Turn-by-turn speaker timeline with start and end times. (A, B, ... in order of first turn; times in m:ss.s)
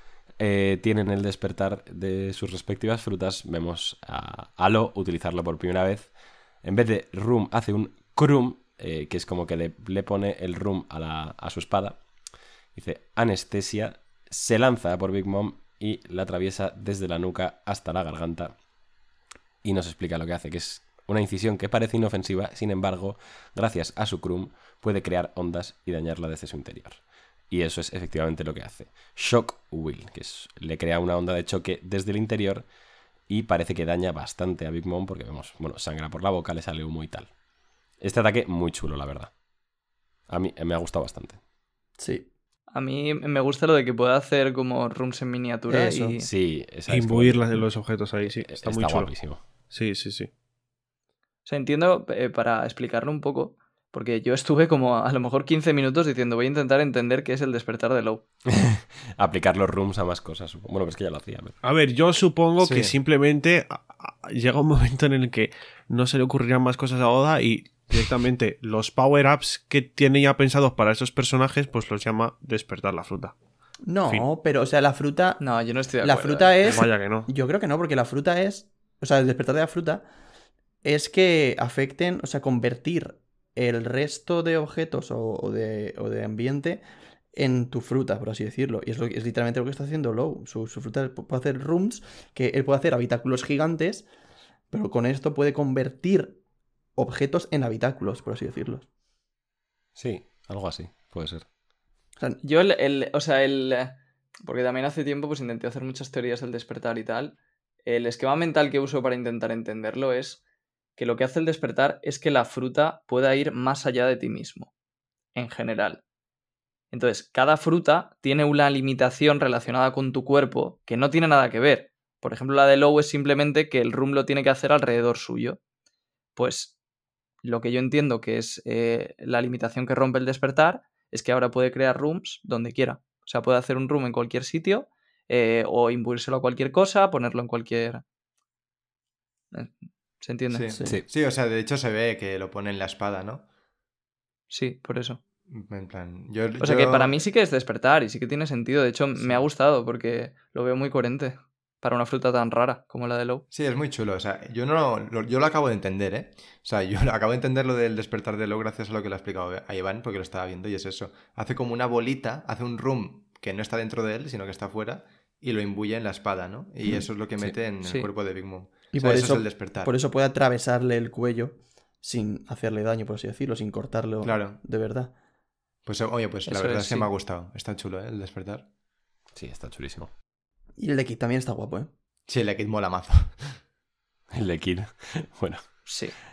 0:00.4-0:12.0 A
0:12.7-0:18.5 A
0:19.6-0:32.6 A
0:33.3-0:37.3 A
0:38.0-0:39.3 A
0:40.3-0:41.4 A
0:42.0-0:42.3 B
0:42.7-0:46.3 C
0:45.7-0:46.2 B
0:46.2-0:47.6 A
0:46.9-0:49.1 D
0:48.2-0:49.4 A
0:49.7-0:50.3 D
0:51.4-0:58.2 C
0:58.5-1:01.5 A
1:01.6-1:13.3 D
1:02.6-1:02.9 E
1:13.8-1:15.4 B
1:15.4-1:16.8 C
1:16.0-1:20.0 B
1:16.7-1:17.3 D
1:20.8-1:26.8 B
1:27.3-1:34.1 B
1:34.7-1:36.4 B
1:37.0-1:38.8 B
1:40.0-1:41.4 A
1:42.4-1:50.4 C
1:51.0-1:54.7 C
1:55.3-1:56.0 C
1:56.9-2:05.6 C
2:06.4-2:06.8 C
2:07.4-2:18.0 C
2:19.5-2:20.6 C
2:20.5-2:23.4 E
2:20.7-2:21.0 B
2:24.5-2:25.2 C
2:25.5-2:27.2 E
2:26.6-2:33.4 C
2:33.5-2:49.9 E
2:48.9-2:55.1 B
2:54.2-2:54.6 E
2:55.8-2:58.7 E
2:56.4-2:57.1 C
2:59.3-3:00.1 A
3:00.8-3:01.9 B
3:02.3-3:03.6 E
3:04.3-3:05.9 A
3:05.8-3:06.1 C